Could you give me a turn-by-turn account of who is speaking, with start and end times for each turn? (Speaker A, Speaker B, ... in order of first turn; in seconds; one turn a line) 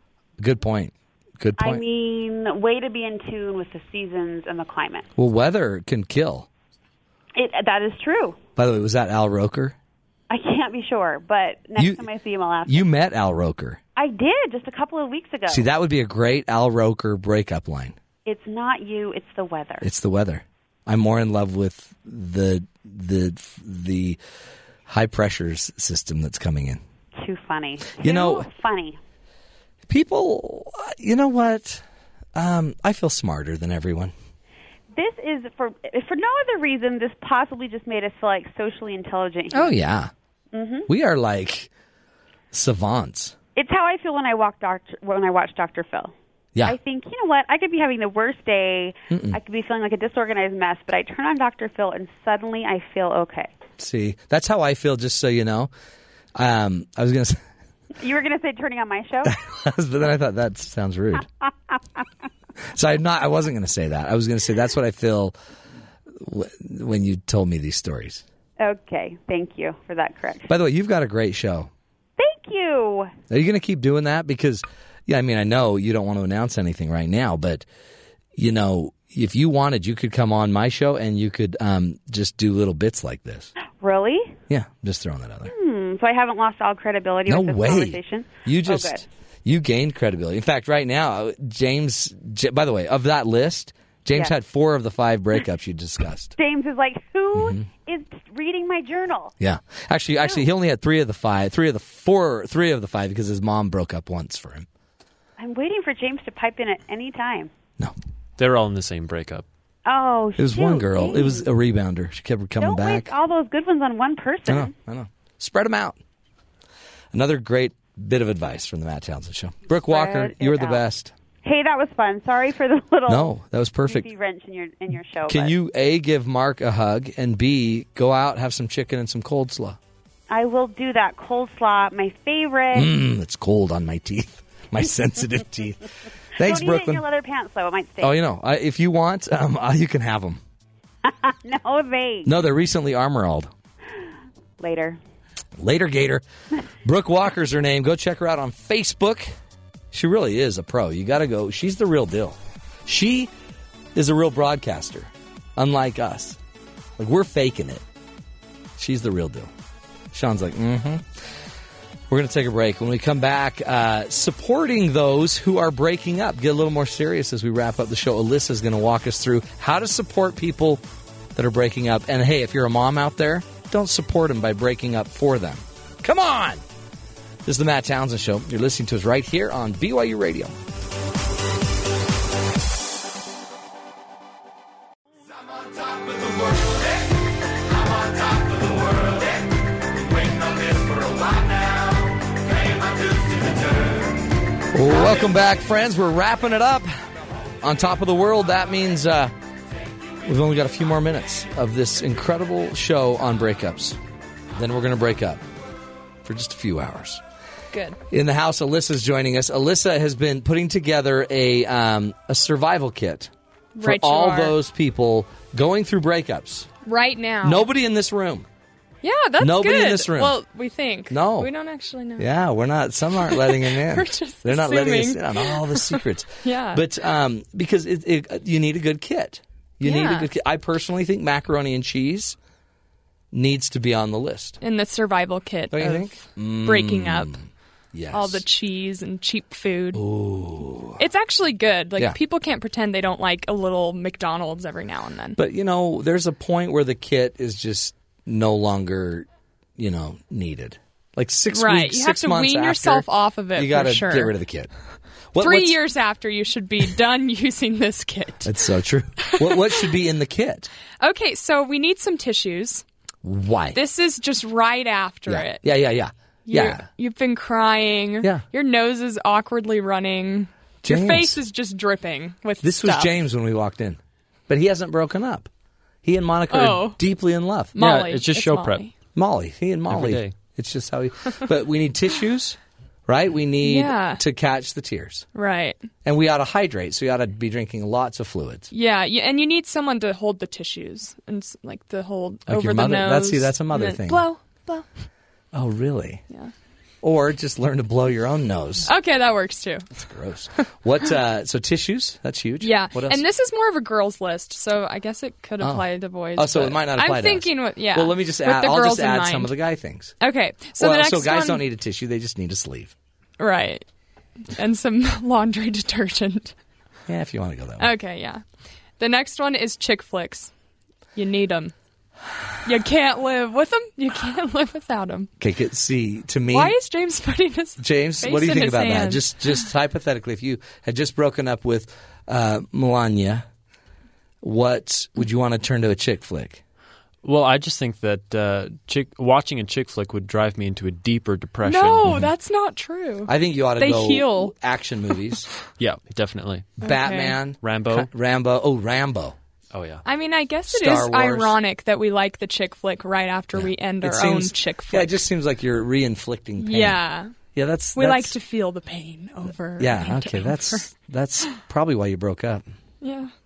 Speaker A: 0.4-1.8
Speaker B: 1.6-5.1
Speaker A: 5.2-6.5
Speaker B: 7.3-8.4
Speaker A: 8.6-9.8
Speaker B: 10.3-12.8
Speaker A: 11.8-12.1
Speaker A: 12.7-13.8
Speaker B: 13.9-15.7
Speaker A: 15.5-18.0
Speaker B: 18.2-19.9
Speaker A: 19.8-24.2
Speaker A: 24.9-26.8
Speaker B: 27.2-29.0
Speaker A: 28.0-28.5
Speaker A: 29.9-31.8
Speaker A: 32.3-34.1
Speaker B: 34.9-39.7
Speaker A: 39.5-40.1
Speaker B: 40.5-40.9
Speaker A: 40.9-41.7
Speaker A: 42.5-43.3
Speaker B: 43.5-46.1
Speaker B: 46.6-53.5
Speaker A: 49.1-49.4
Speaker A: 53.8-55.7
Speaker A: 56.3-57.4
Speaker B: 58.0-59.4
Speaker A: 59.2-61.2
Speaker A: 62.7-65.3
Speaker A: 66.2-68.2
Speaker B: 68.6-70.5
Speaker A: 70.5-71.7
Speaker B: 72.2-73.2
Speaker A: 73.3-77.7
Speaker A: 78.3-83.5
Speaker B: 83.7-84.4
Speaker A: 84.5-85.5
Speaker B: 85.5-89.0
Speaker A: 87.3-96.3
Speaker B: 96.4-99.3
Speaker A: 97.3-97.6
Speaker A: 99.4-104.7
Speaker B: 105.4-107.5
Speaker C: 108.4-109.5
Speaker B: 109.8-111.5
Speaker A: 110.4-113.1
Speaker B: 112.6-114.7
Speaker A: 114.5-116.0
Speaker A: 117.1-121.1
Speaker B: 119.9-120.8
Speaker B: 121.4-123.3
Speaker A: 123.1-124.1
Speaker B: 123.8-125.5
Speaker A: 125.3-129.8
Speaker B: 130.3-132.9
Speaker A: 132.7-137.0
Speaker B: 136.4-138.2
Speaker A: 138.0-140.4
Speaker B: 141.0-142.3
Speaker A: 142.2-143.5
Speaker B: 144.6-145.0
Speaker A: 145.6-146.2
Speaker A: 146.8-149.3
Speaker A: 149.9-153.3
Speaker A: 153.9-156.4
Speaker A: 157.0-157.8
Speaker A: 158.8-159.5
Speaker A: 160.1-161.1
Speaker A: 162.1-170.8
Speaker A: 171.3-176.6
Speaker A: 177.4-180.5
Speaker A: 185.8-186.8
Speaker A: 187.9-189.4
Speaker A: 190.2-193.4
Speaker A: 194.7-196.9
Speaker A: 197.6-199.3
Speaker A: 200.2-204.0
Speaker A: 204.5-205.4
Speaker A: 206.2-207.2
Speaker D: 207.7-208.0
Speaker A: 208.1-216.7
Speaker D: 213.7-214.6
Speaker D: 216.8-217.7
Speaker A: 217.4-218.5
Speaker D: 219.0-222.3
Speaker A: 219.4-220.4
Speaker A: 221.1-221.5
Speaker A: 222.2-232.4
Speaker D: 223.2-226.8
Speaker D: 229.8-230.3
Speaker A: 233.3-234.6
Speaker D: 234.6-237.4
Speaker A: 235.7-238.4
Speaker D: 238.1-240.0
Speaker A: 239.9-241.0
Speaker D: 241.0-245.4
Speaker A: 245.3-254.7
Speaker D: 251.5-254.3
Speaker A: 255.3-255.8
Speaker D: 255.4-258.6
Speaker A: 258.4-260.7
Speaker D: 259.2-259.7
Speaker D: 261.0-262.8
Speaker A: 263.2-263.8
Speaker D: 263.7-265.7
Speaker A: 265.3-266.9
Speaker D: 266.4-273.1
Speaker A: 270.8-271.4
Speaker A: 272.6-275.5
Speaker A: 276.0-277.7
Speaker D: 276.5-277.0
Speaker D: 277.7-278.9
Speaker C: 277.8-278.8
Speaker A: 279.1-285.3
Speaker C: 279.9-280.3
Speaker D: 283.6-284.2
Speaker D: 285.3-285.9
Speaker A: 286.0-288.7
Speaker D: 288.7-294.9
Speaker A: 292.5-294.2
Speaker A: 295.5-296.2
Speaker A: 297.0-298.9
Speaker D: 298.8-299.9
Speaker A: 300.0-303.2
Speaker D: 302.6-309.6
Speaker A: 306.4-310.1
Speaker D: 310.2-311.6
Speaker A: 310.8-312.9
Speaker D: 313.4-313.9
Speaker D: 314.5-316.5
Speaker A: 317.1-317.9
Speaker D: 317.8-318.4
Speaker D: 319.0-320.5
Speaker D: 321.1-321.7
Speaker D: 322.6-325.3
Speaker A: 325.4-326.8
Speaker D: 326.5-329.6
Speaker A: 327.8-333.4
Speaker A: 334.4-336.6
Speaker C: 337.2-342.2
Speaker D: 341.6-344.5
Speaker A: 343.3-345.5
Speaker C: 345.8-346.9
Speaker A: 346.8-349.4
Speaker D: 346.8-347.4
Speaker C: 347.6-348.1
Speaker C: 349.7-350.0
Speaker D: 350.0-355.2
Speaker A: 350.7-351.6
Speaker A: 353.5-357.0
Speaker D: 356.6-357.3
Speaker A: 357.5-358.3
Speaker D: 357.9-360.9
Speaker A: 359.8-362.6
Speaker D: 363.0-363.3